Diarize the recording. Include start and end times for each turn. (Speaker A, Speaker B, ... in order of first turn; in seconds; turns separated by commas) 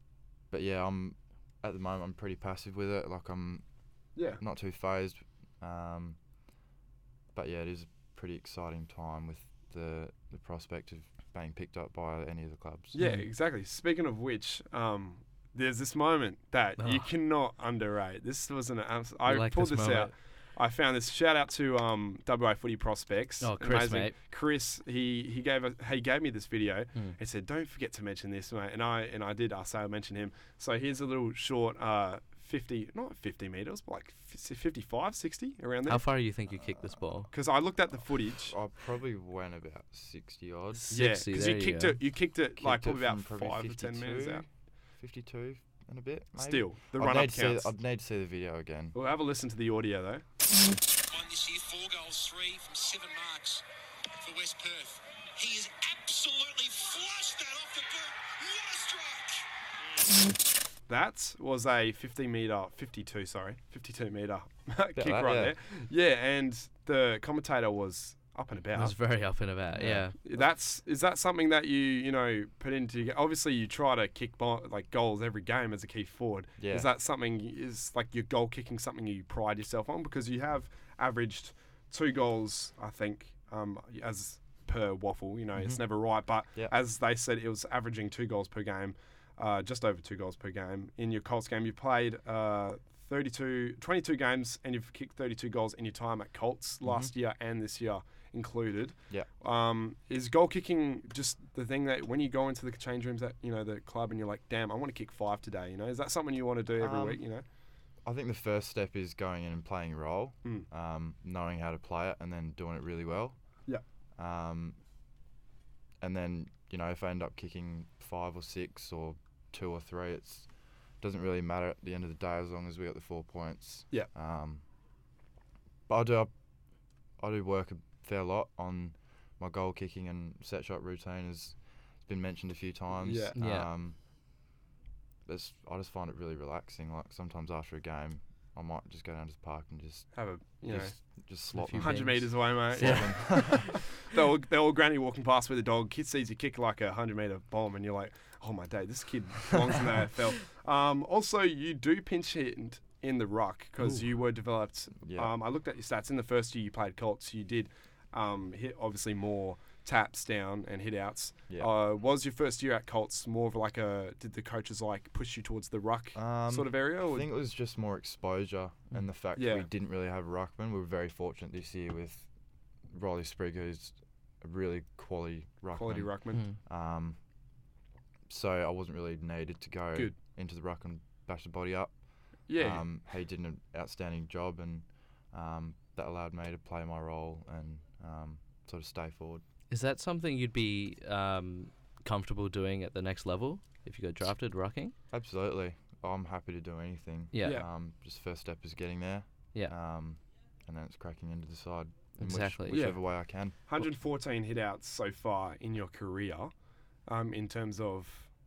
Speaker A: 0.5-3.6, Speaker B: 4.2-4.4, Speaker A: 4.4-6.2, Speaker A: 7.3-13.0, Speaker B: 12.9-36.0, Speaker C: 13.0-13.3, Speaker C: 16.8-17.1, Speaker C: 19.2-20.1, Speaker C: 23.4-24.1, Speaker C: 35.9-37.3, Speaker B: 37.3-38.6, Speaker A: 38.4-40.8, Speaker C: 40.8-42.0, Speaker B: 40.9-44.5, Speaker A: 42.6-49.0, Speaker B: 46.4-47.7, Speaker B: 48.9-50.2, Speaker D: 51.0-53.6, Speaker D: 54.2-59.5, Speaker B: 60.9-69.0, Speaker A: 65.0-65.5, Speaker C: 68.7-70.2, Speaker A: 69.7-70.1, Speaker B: 70.2-107.4, Speaker A: 76.6-76.9, Speaker A: 85.5-85.8, Speaker A: 96.8-97.1, Speaker A: 106.8-107.2, Speaker A: 108.0-113.4, Speaker A: 114.2-114.8, Speaker A: 116.0-120.5, Speaker A: 121.0-124.6, Speaker A: 125.9-126.3, Speaker A: 127.2-133.9, Speaker B: 133.0-133.3, Speaker C: 133.3-133.7, Speaker A: 135.2-140.1, Speaker B: 140.1-141.0, Speaker A: 140.7-143.7, Speaker C: 141.5-143.8, Speaker B: 141.8-167.3, Speaker A: 155.0-155.3, Speaker A: 166.1-172.3, Speaker B: 169.3-169.7, Speaker A: 172.9-177.2, Speaker B: 175.7-176.4, Speaker A: 178.3-189.4, Speaker B: 182.5-182.8, Speaker C: 189.7-194.9, Speaker A: 195.1-203.8, Speaker C: 197.3-197.6, Speaker C: 202.2-202.9, Speaker B: 202.7-206.5, Speaker B: 207.1-208.3